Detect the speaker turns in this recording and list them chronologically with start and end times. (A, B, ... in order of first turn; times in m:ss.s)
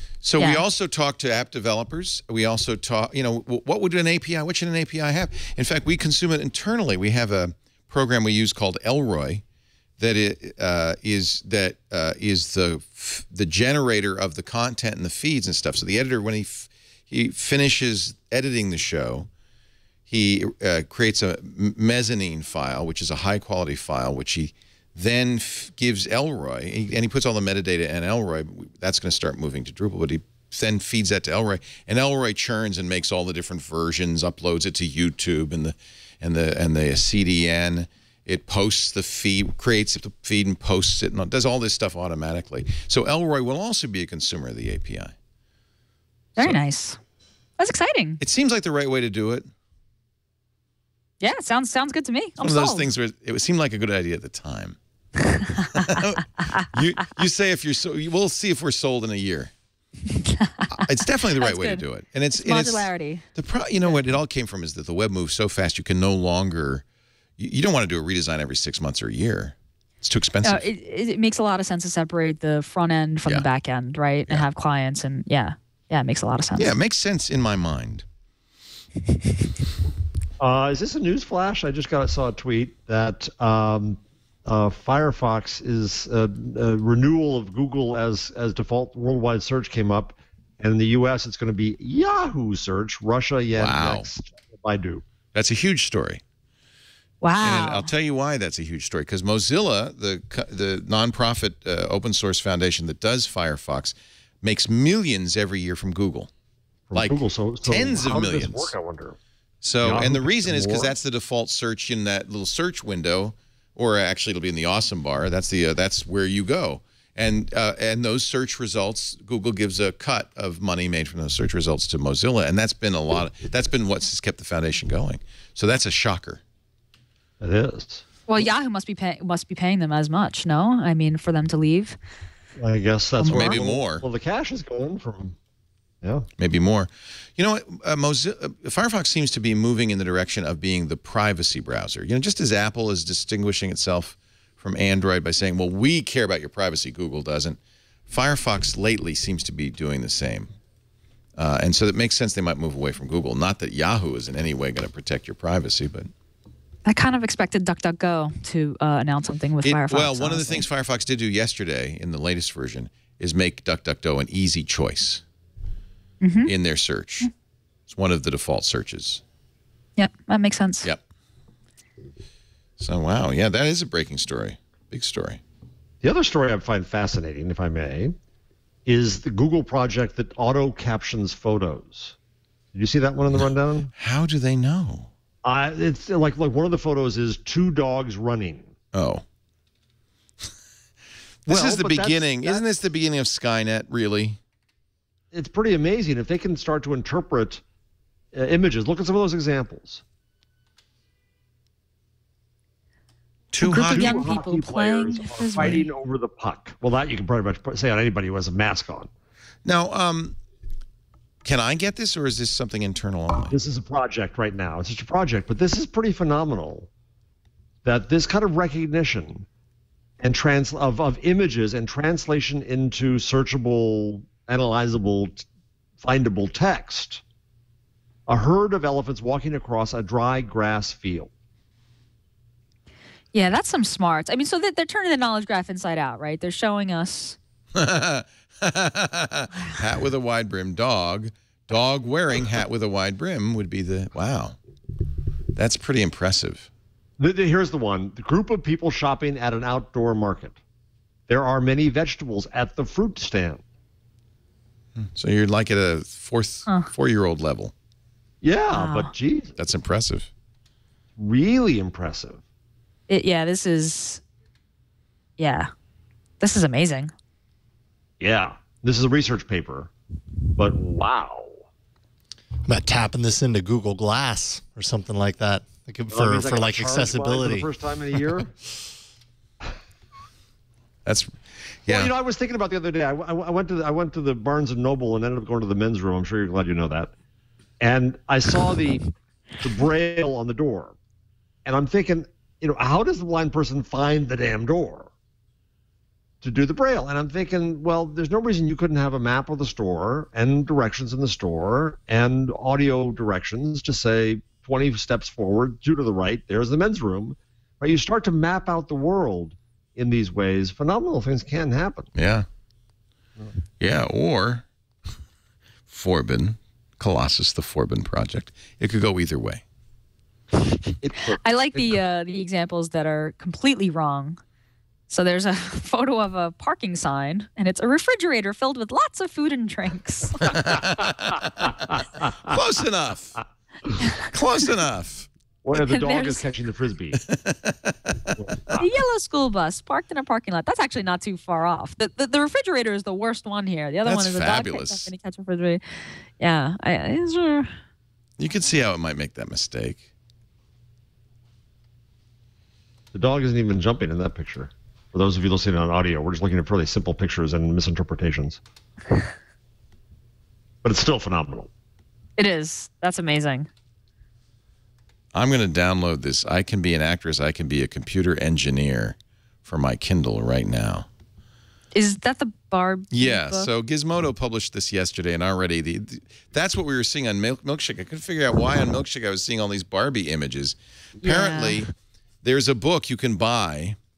0:00.2-0:09.4 A
0:00.4-0:00.6 B
0:10.0-0:19.3 A
0:20.1-0:45.1 A
0:46.4-0:47.0 B
0:47.6-0:48.2 B
0:48.2-0:49.5 A
0:51.2-0:52.9 B
0:52.4-0:54.8 A
0:55.3-0:56.7 B
0:55.7-0:59.5 A
1:00.2-1:03.3 B
1:00.7-1:06.8 A
1:07.4-1:10.7 A
1:10.4-1:16.7 B
1:16.6-1:18.0 A
1:20.4-1:35.0 C
1:33.6-1:34.1 A
1:35.3-1:36.2 A
1:37.2-1:37.9 B
1:37.4-1:46.3 A
1:46.9-1:49.2 C
1:46.9-1:48.8 A
1:49.6-2:06.4 A
1:49.8-1:50.9 C
2:07.4-2:08.0 C
2:08.3-2:12.0 B
2:12.6-2:15.4 C
2:13.2-2:13.6 B
2:13.2-2:14.0 A
2:16.0-2:16.3 C
2:16.4-2:30.5 A
2:31.4-2:36.1 A
2:36.9-2:40.7 B
2:39.6-2:45.2 A
2:46.2-2:46.5 B
2:46.5-2:47.3 A
2:47.9-2:49.2 A
2:50.0-2:50.9 B
2:52.8-2:55.4 A
2:56.0-2:58.2 C
2:58.9-3:02.2 C
3:02.7-3:03.9 C
3:04.0-3:05.1 A
3:05.4-3:08.7 C
3:08.9-3:09.2 A
3:11.5-3:14.4 A
3:11.5-3:12.6 C
3:15.3-3:17.6 C
3:18.3-3:20.0 C
3:23.5-3:24.3 A
3:23.6-3:25.9 B
3:23.7-3:29.1 C
3:29.6-3:30.4 A
3:31.4-3:33.6 A
3:33.5-3:36.9 C
3:37.8-3:39.5 C
3:40.2-3:45.4 C
3:46.0-3:47.2 C
3:48.3-3:51.3 C
3:53.3-3:57.4 B
3:57.7-4:04.6 A
4:05.6-4:06.7 A
4:07.2-4:10.6 C
4:11.3-4:13.6 C
4:15.0-4:17.7 A
4:18.4-4:19.6 C
4:18.7-4:19.1 B
4:19.6-4:20.3 A
4:21.2-4:22.4 C
4:23.1-4:24.2 B
4:25.4-4:25.7 B
4:26.4-4:27.1 B
4:28.2-4:29.9 C
4:30.6-4:31.6 C
4:32.7-4:38.3 D
4:36.1-4:38.5 C
4:41.0-4:42.1 A
4:41.9-4:47.1 C
4:47.8-4:49.1 C
4:49.6-4:51.0 C
4:51.6-4:55.1 C
4:56.4-5:12.1 C
5:12.2-5:12.5 A
5:13.8-5:14.6 A
5:15.9-5:19.6 A
5:21.0-5:21.9 C
5:21.4-5:24.4 B
5:25.1-5:30.6 B
5:30.4-5:31.8 A
5:31.9-5:32.5 C
5:32.4-5:33.4 A
5:34.1-5:35.3 A
5:35.6-5:37.2 C
5:35.7-5:36.4 B
5:37.2-5:38.4 A
5:38.4-5:38.9 C
5:38.8-5:45.8 B
5:44.0-5:45.1 A
5:46.4-5:47.7 B
5:48.4-5:50.0 A
5:53.1-5:58.6 C
6:00.8-6:01.7 C
6:02.4-6:03.7 B
6:05.3-6:11.1 A
6:11.9-6:13.7 B
6:13.1-6:21.9 A
6:21.2-6:21.8 B
6:22.4-6:24.0 A